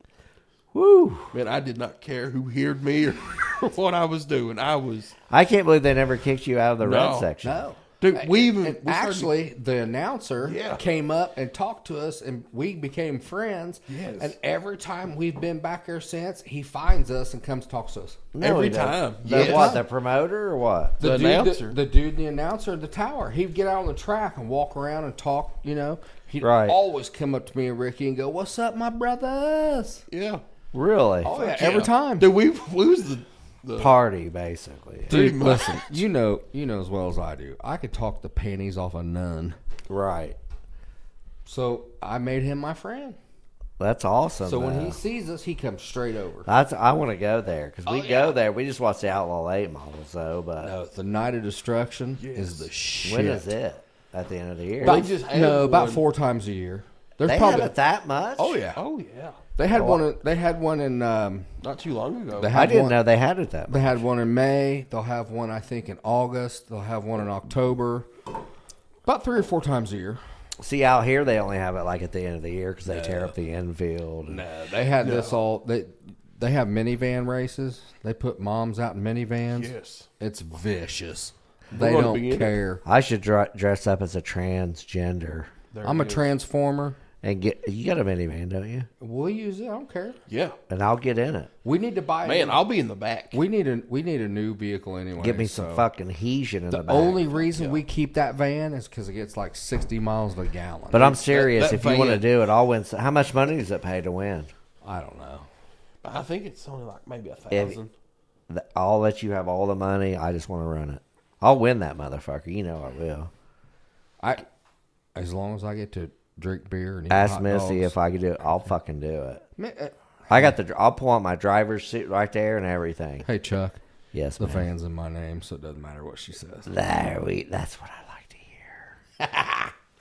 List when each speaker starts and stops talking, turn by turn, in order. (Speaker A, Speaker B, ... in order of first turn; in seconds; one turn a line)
Speaker A: 0.7-1.3
Speaker B: 1.3-5.2
Speaker A: 5.3-7.6
Speaker B: 6.8-7.3
Speaker C: 7.4-18.2
Speaker B: 8.0-9.3
Speaker B: 10.4-10.8
Speaker B: 13.9-14.3
Speaker A: 18.3-21.0
Speaker B: 18.4-19.8
Speaker C: 19.3-19.8
Speaker B: 21.0-21.8
Speaker C: 21.0-30.0
Speaker A: 26.4-26.8
Speaker B: 30.1-30.4
Speaker A: 30.7-31.3
Speaker C: 31.2-32.3
Speaker B: 31.3-33.9
Speaker A: 33.8-35.2
Speaker B: 35.1-36.0
Speaker C: 35.1-39.6
Speaker A: 39.9-40.4
Speaker C: 41.5-43.2
Speaker A: 43.8-45.0
Speaker C: 44.4-46.5
Speaker A: 46.5-50.7
Speaker C: 50.6-53.5
Speaker B: 52.2-52.7
Speaker A: 53.0-55.1
Speaker B: 54.8-56.0
Speaker C: 54.8-57.7
Speaker A: 57.2-58.6
Speaker C: 58.4-58.8
Speaker B: 58.8-59.4
Speaker C: 59.6-61.5
Speaker A: 59.7-60.0
Speaker B: 61.6-62.5
Speaker C: 62.4-63.0
Speaker A: 62.5-64.0
Speaker C: 63.7-68.1
Speaker C: 69.1-70.2
Speaker A: 70.6-74.4
Speaker C: 72.9-73.3
Speaker C: 74.3-82.8
Speaker B: 75.0-75.4
Speaker B: 79.5-80.1
Speaker B: 81.7-82.6
Speaker A: 82.8-85.5
Speaker B: 85.7-86.3
Speaker C: 85.8-87.0
Speaker A: 87.2-88.9
Speaker C: 89.0-90.2
Speaker B: 90.3-90.6
Speaker A: 90.7-91.5
Speaker C: 91.6-92.6
Speaker B: 92.2-93.4
Speaker C: 93.3-95.8
Speaker A: 95.2-97.3
Speaker C: 96.7-101.2
Speaker B: 97.4-97.8
Speaker A: 100.9-104.5
Speaker B: 100.9-102.3
Speaker C: 104.8-105.5
Speaker B: 106.0-107.9
Speaker A: 107.5-107.8
Speaker A: 108.5-113.3
Speaker C: 115.2-118.0
Speaker A: 117.1-119.5
Speaker C: 119.6-120.5
Speaker A: 120.3-123.3
Speaker C: 123.3-123.8
Speaker A: 124.1-124.7
Speaker C: 124.4-126.7
Speaker A: 126.7-129.7